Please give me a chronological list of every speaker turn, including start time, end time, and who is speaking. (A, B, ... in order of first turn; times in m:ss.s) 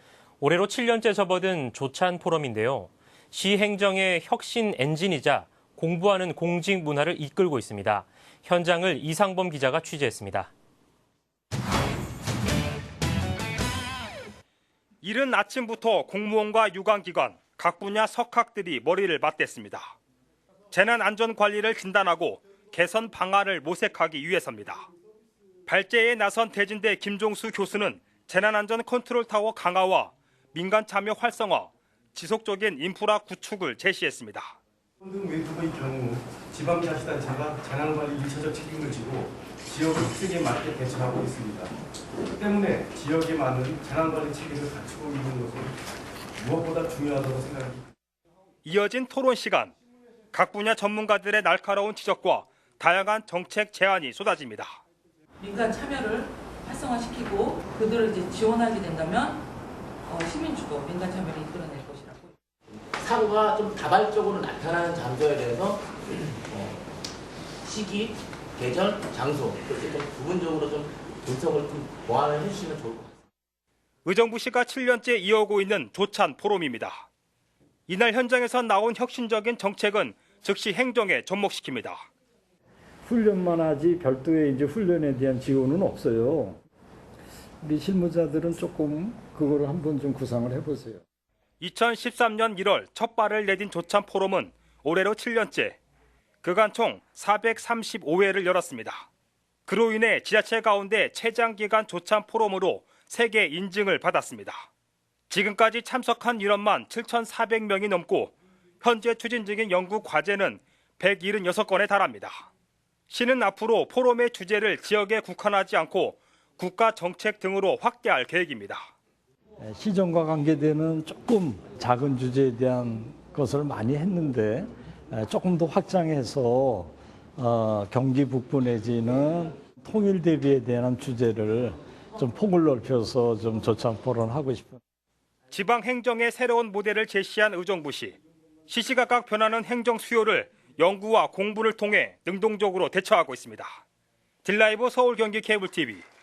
0:00.4-0:10.5 A
0:15.0-0:19.9 B
0:20.7-0:24.9 B
0:25.7-0:34.6 B
0:35.0-0:41.7 C
0:42.3-0:45.8 C
0:46.4-0:47.9 C
0:48.6-0:49.7 B
0:50.3-0:54.8 B
0:55.4-0:59.4 D
1:00.0-1:02.4 D
1:02.7-1:06.9 E
1:07.6-1:13.2 E
1:14.0-1:17.1 B
1:17.9-1:22.1 B
1:23.0-1:26.6 F
1:27.6-1:31.0 F
1:31.6-1:35.8 B
1:36.4-1:39.1 B
1:39.7-1:44.7 B
1:45.3-1:52.5 B
1:53.1-1:58.9 B
1:59.6-2:14.8 F
2:15.5-2:23.8 B
2:24.4-2:26.0 B